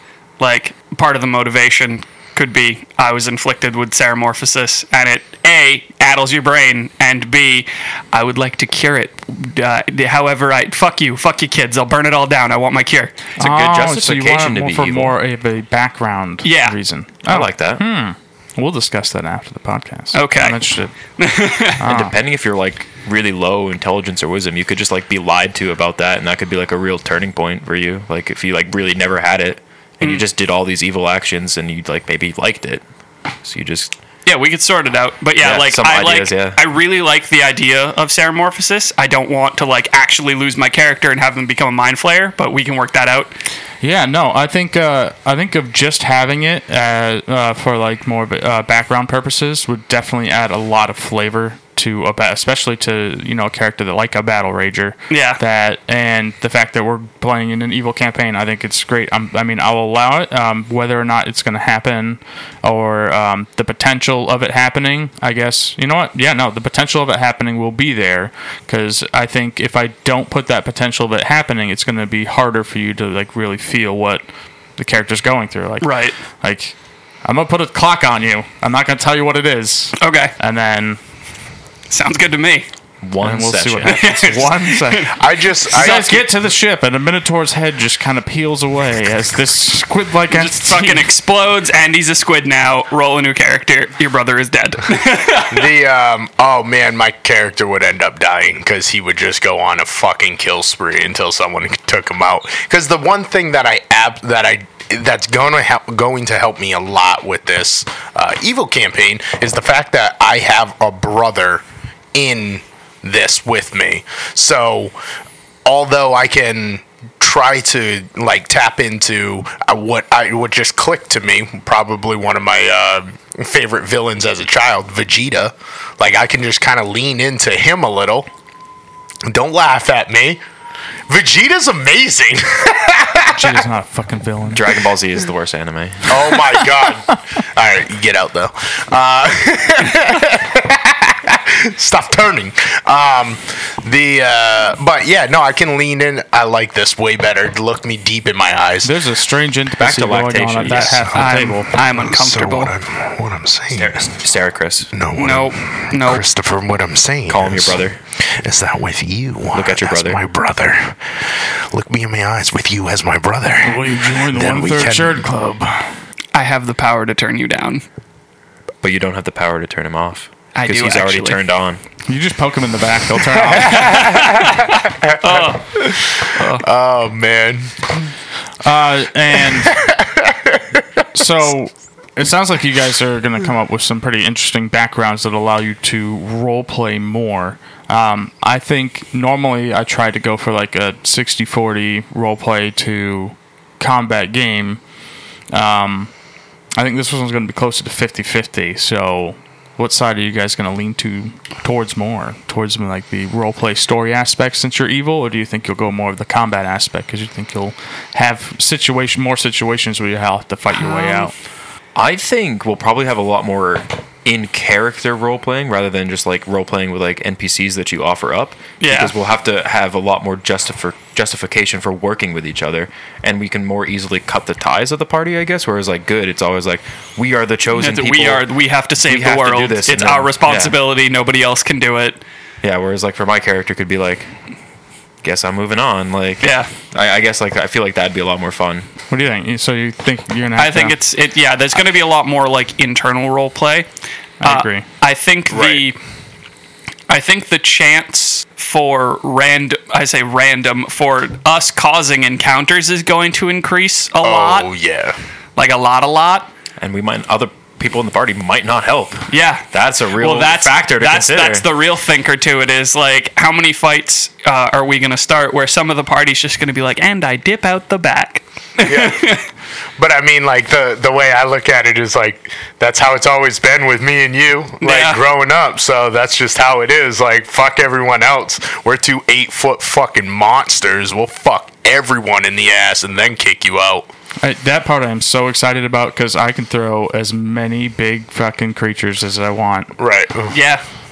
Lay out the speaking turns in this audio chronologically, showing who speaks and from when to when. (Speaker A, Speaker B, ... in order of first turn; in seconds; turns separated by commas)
Speaker A: 0.4-13.2, Speaker B: 13.4-15.2, Speaker C: 13.4-20.9, Speaker A: 16.4-16.8, Speaker B: 17.2-17.8, Speaker A: 20.1-20.6, Speaker A: 21.2-21.8, Speaker C: 21.8-22.1, Speaker B: 21.8-32.8, Speaker B: 33.4-33.9, Speaker A: 34.2-43.3, Speaker B: 35.4-36.6, Speaker C: 43.8-74.2, Speaker A: 55.1-55.4, Speaker C: 74.8-81.0, Speaker A: 75.8-76.2, Speaker A: 80.0-80.3, Speaker A: 81.9-82.7, Speaker B: 83.0-84.1, Speaker C: 83.2-85.2, Speaker A: 83.8-85.1, Speaker D: 85.1-86.2, Speaker A: 85.7-86.2, Speaker C: 85.7-91.1, Speaker A: 90.3-95.7, Speaker D: 95.5-111.6, Speaker D: 112.1-114.9, Speaker D: 115.6-128.3, Speaker D: 129.2-130.4, Speaker D: 131.1-133.5, Speaker C: 133.3-134.7, Speaker B: 134.5-136.3, Speaker D: 136.1-148.9, Speaker C: 148.8-151.7, Speaker B: 149.8-151.1, Speaker A: 150.6-152.7, Speaker D: 151.9-154.1, Speaker B: 153.7-154.9, Speaker D: 154.9-165.3, Speaker A: 155.2-156.2, Speaker B: 157.3-158.0, Speaker B: 159.5-160.2, Speaker C: 163.6-165.9, Speaker A: 166.3-167.8, Speaker B: 168.8-171.8, Speaker A: 170.5-171.4, Speaker C: 172.1-174.2, Speaker A: 173.6-175.8, Speaker D: 173.6-177.8, Speaker A: 176.3-176.6, Speaker C: 178.6-179.8, Speaker D: 179.7-180.6, Speaker C: 181.1-194.8, Speaker C: 195.5-196.1, Speaker C: 196.8-211.3, Speaker A: 210.8-211.3, Speaker B: 211.9-228.4, Speaker A: 218.8-219.1, Speaker A: 227.7-232.2, Speaker B: 229.0-230.8, Speaker B: 232.6-234.3, Speaker B: 235.2-238.9, Speaker A: 236.4-236.7, Speaker C: 239.1-240.9, Speaker A: 240.6-243.9, Speaker C: 244.4-244.8, Speaker A: 244.4-246.0, Speaker D: 245.5-245.9, Speaker A: 247.1-254.7, Speaker D: 254.2-255.2, Speaker A: 255.6-256.5, Speaker B: 256.8-261.7, Speaker A: 259.3-269.4, Speaker D: 268.8-269.2, Speaker D: 270.0-284.1, Speaker A: 274.8-275.2, Speaker C: 284.4-289.9, Speaker D: 290.0-290.6, Speaker A: 290.5-290.8